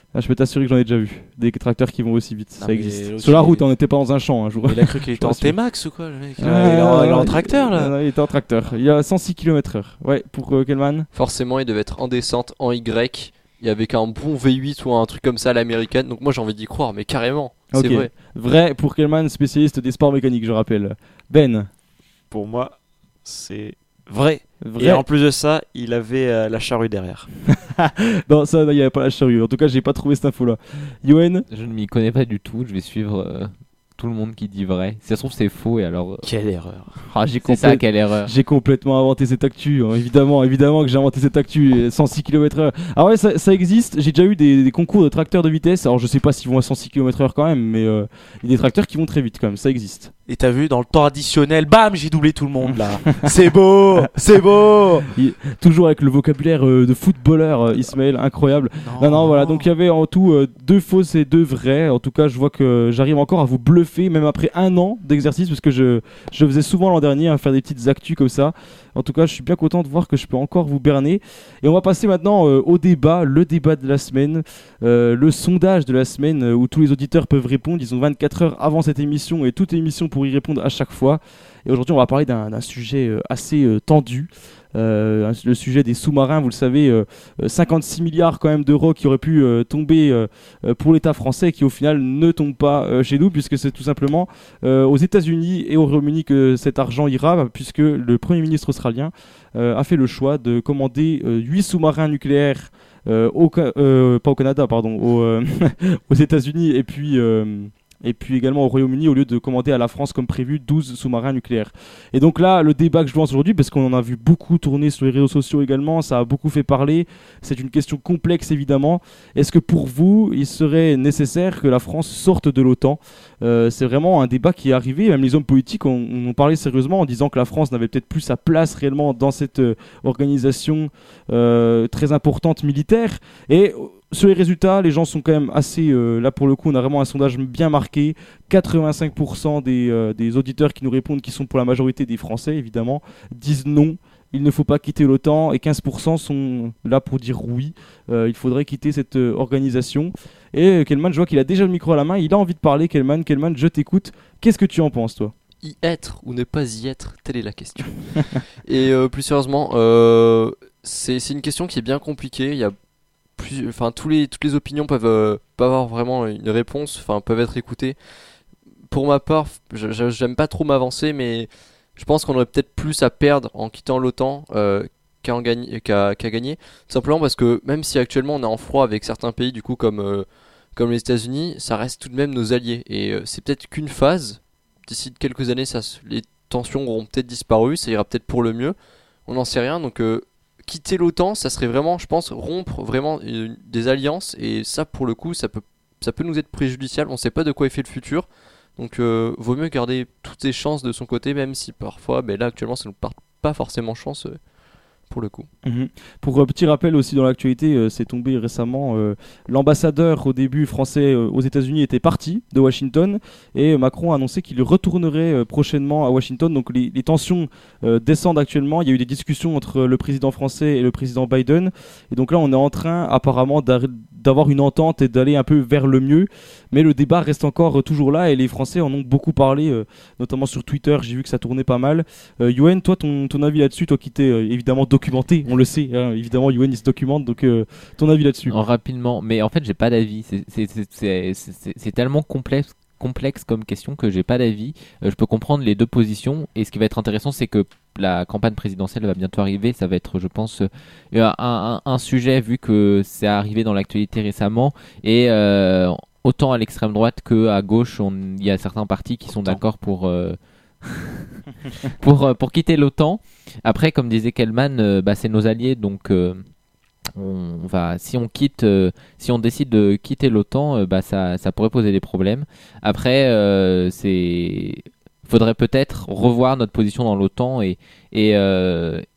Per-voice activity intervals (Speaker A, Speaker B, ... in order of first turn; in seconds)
Speaker A: 0.1-5.6, 6.4-11.1, 17.7-21.7, 24.6-25.1, 27.8-31.4, 37.1-50.1, 55.1-155.3, 205.6-238.6
Speaker B: 2.6-3.6, 4.6-7.9, 50.3-55.1, 58.8-59.6
Speaker C: 11.1-18.1, 155.6-158.1, 158.6-162.7, 163.4-168.0, 168.9-204.4, 205.1-205.5
Speaker D: 22.3-27.3, 36.2-37.0
Speaker E: 31.5-36.3, 37.4-38.3, 238.5-261.3, 261.9-266.4, 267.1-279.0